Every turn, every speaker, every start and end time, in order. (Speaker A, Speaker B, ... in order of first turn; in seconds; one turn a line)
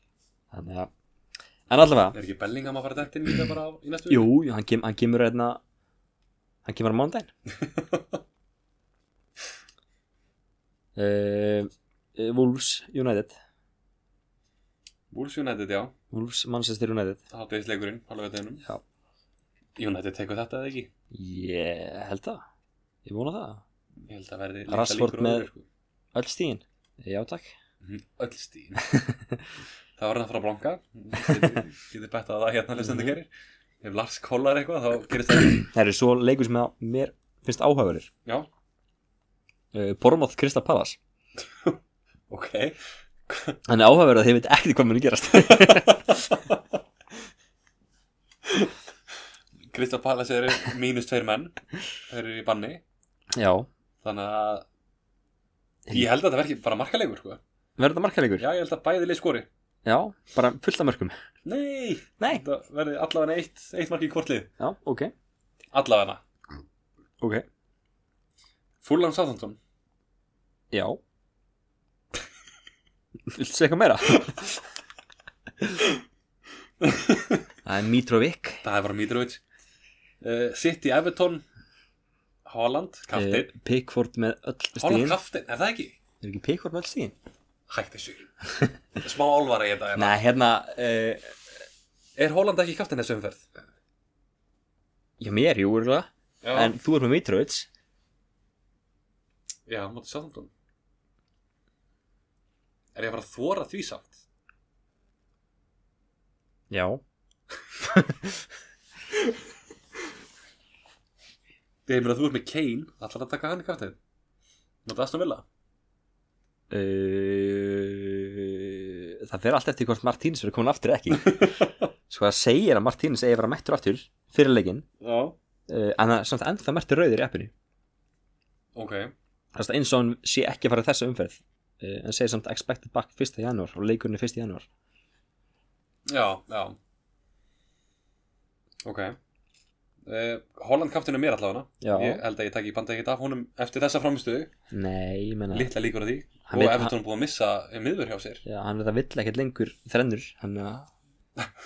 Speaker A: 0.5-0.9
Speaker A: 1.7-2.1
Speaker B: 2.1-4.3
Speaker A: 4.1-5.6
Speaker A: 6.6-7.3
Speaker B: 7.6-8.2
Speaker A: 10.9-13.3
Speaker B: 15.1-15.9
Speaker A: 16.1-17.2
Speaker B: 17.3-18.6
Speaker B: 19.8-20.9
Speaker A: 21.1-22.4
Speaker A: 23.0-23.6
Speaker B: 24.1-25.6
Speaker A: 24.7-25.5
Speaker A: 26.1-27.5
Speaker B: 27.8-28.8
Speaker A: 28.8-29.4
Speaker B: 30.0-33.3
Speaker A: 31.2-31.6
Speaker A: 32.8-33.1
Speaker B: 33.8-35.7
Speaker A: 35.5-38.1
Speaker A: 39.7-41.0
Speaker B: 41.5-41.8
Speaker B: 42.3-42.8
Speaker B: 43.3-43.6
Speaker A: 43.6-46.2
Speaker B: 45.4-46.6
Speaker B: 48.5-48.7
Speaker B: 49.7-51.5
Speaker B: 52.1-52.8
Speaker A: 53.3-53.7
Speaker B: 54.0-54.6
Speaker B: 55.9-57.4
Speaker A: 57.8-58.5
Speaker B: 58.4-59.5
Speaker A: 59.8-61.1
Speaker B: 61.4-64.5
Speaker A: 64.6-65.1
Speaker B: 65.7-66.2
Speaker B: 68.8-69.6
Speaker A: 70.7-71.0
Speaker A: 73.3-74.5
Speaker B: 76.8-77.4
Speaker A: 77.6-78.6
Speaker B: 78.6-79.4
Speaker B: 80.2-81.4
Speaker B: 82.5-83.5
Speaker A: 83.1-85.2
Speaker B: 84.8-86.0
Speaker A: 86.2-87.1
Speaker B: 87.7-88.3
Speaker B: 89.0-90.2
Speaker A: 90.0-91.3
Speaker B: 92.2-93.5
Speaker A: 95.2-97.7
Speaker B: 96.4-96.7
Speaker B: 99.7-100.5
Speaker B: 103.0-104.2
Speaker A: 106.7-107.0
Speaker A: 107.8-108.5
Speaker B: 111.9-114.0
Speaker B: 114.8-115.4
Speaker A: 116.7-121.5
Speaker B: 121.1-121.8
Speaker A: 122.1-124.8
Speaker B: 125.0-125.3
Speaker A: 125.7-127.5
Speaker B: 128.7-129.1
Speaker A: 129.5-134.7
Speaker B: 136.1-136.8
Speaker B: 138.8-139.2
Speaker B: 140.1-144.5
Speaker A: 141.8-142.2
Speaker A: 144.7-145.7
Speaker B: 145.5-148.4
Speaker A: 146.5-146.9
Speaker A: 148.4-150.9